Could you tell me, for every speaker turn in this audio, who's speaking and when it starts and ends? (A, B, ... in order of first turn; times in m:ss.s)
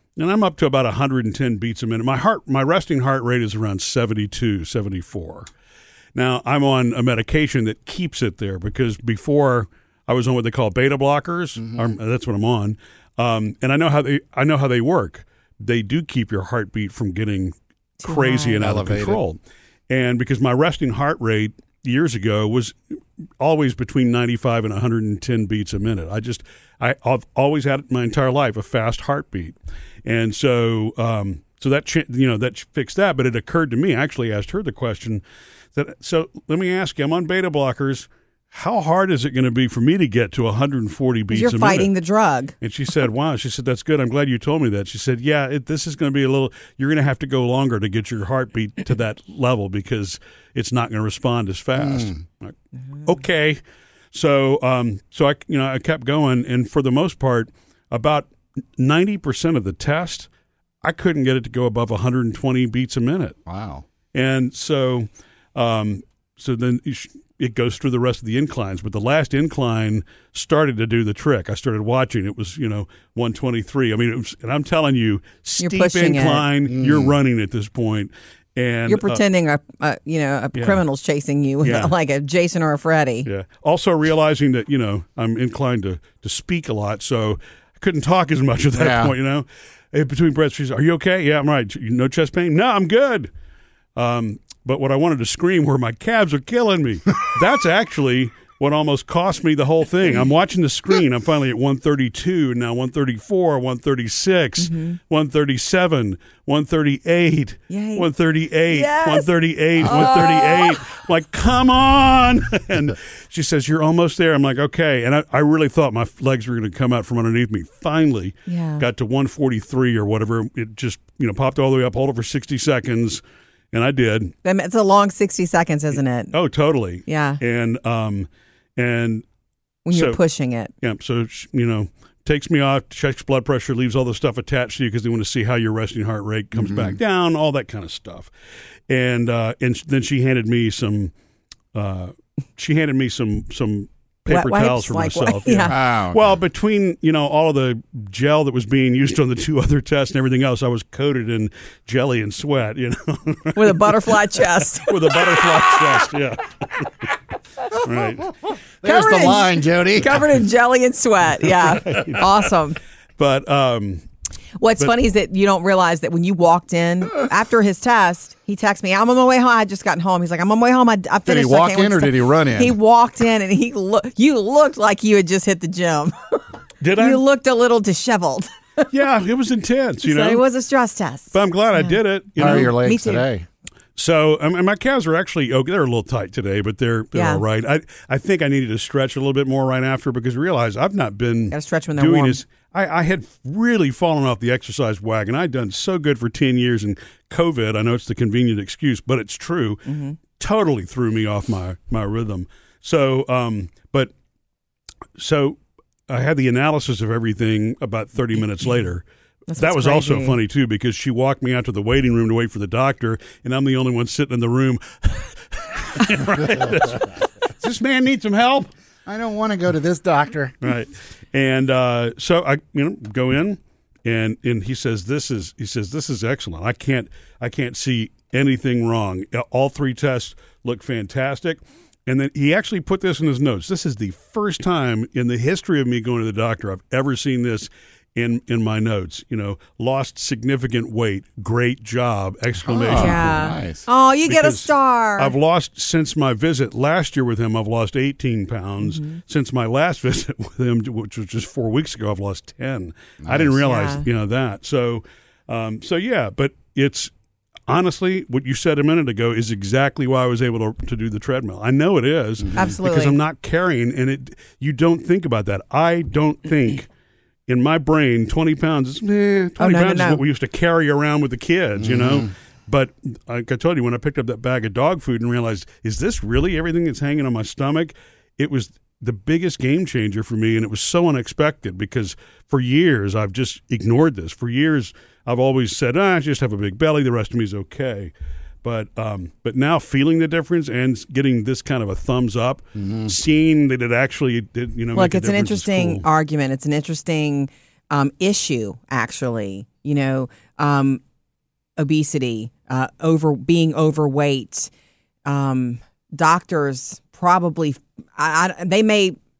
0:00.2-0:05.5 A
0:06.1-0:22.8 A
0:18.0-0:18.6 B
0:18.6-0:19.2 C
0:23.4-0:35.2 A
0:35.7-0:41.9 A
0:41.3-0:42.5 B
0:42.6-0:53.6 A
0:54.1-1:00.3 A
1:00.8-1:03.4 A
1:03.5-1:03.8 C
1:04.1-1:19.2 A
1:15.6-1:16.4 B
1:16.7-1:17.1 C
1:18.9-1:23.3 B
1:20.5-1:20.8 A
1:21.6-1:21.9 A
1:23.2-1:33.3 A
1:28.8-1:29.1 C
1:34.0-2:04.3 A
1:44.6-1:45.0 B
1:47.7-1:48.1 B
1:48.7-1:50.8 B
1:58.5-1:58.8 B
2:04.4-2:06.3 B
2:06.3-2:09.2 A
2:07.0-2:07.4 B
2:09.8-2:10.7 B
2:09.9-2:10.2 A
2:10.8-2:18.3 A
2:16.6-2:17.0 C
2:18.9-2:21.1 A
2:21.7-2:34.1 A
2:24.3-2:25.8 B
2:25.6-2:26.3 C
2:33.5-2:35.2 B
2:34.7-2:37.1 A
2:37.7-2:38.4 A
2:38.8-2:40.1 C
2:38.8-2:42.8 B
2:41.8-2:42.2 A
2:43.2-2:44.0 A
2:44.6-2:56.4 B
2:51.2-2:52.8 C
2:56.8-2:57.2 A
2:56.9-2:58.9 B
2:58.9-3:00.4 A
3:00.0-3:03.2 B
3:01.3-3:02.8 A
3:02.4-3:03.4 C
3:04.0-3:24.1 A
3:07.1-3:07.4 B
3:11.5-3:12.4 B
3:19.9-3:20.2 B
3:25.2-3:29.0 A
3:29.5-3:30.4 B
3:29.6-3:38.7 A
3:39.0-3:40.6 C
3:40.6-4:03.3 A
4:02.6-4:03.9 C
4:02.9-4:05.3 B
4:04.2-4:17.1 A
4:13.2-4:13.6 C
4:13.6-4:14.0 B
4:17.7-4:26.9 A
4:22.5-4:23.2 B
4:27.5-4:56.0 A
4:29.6-4:30.2 B
4:31.8-4:32.3 C
4:54.9-5:01.0 B
5:01.8-5:04.7 B
5:05.2-5:09.2 B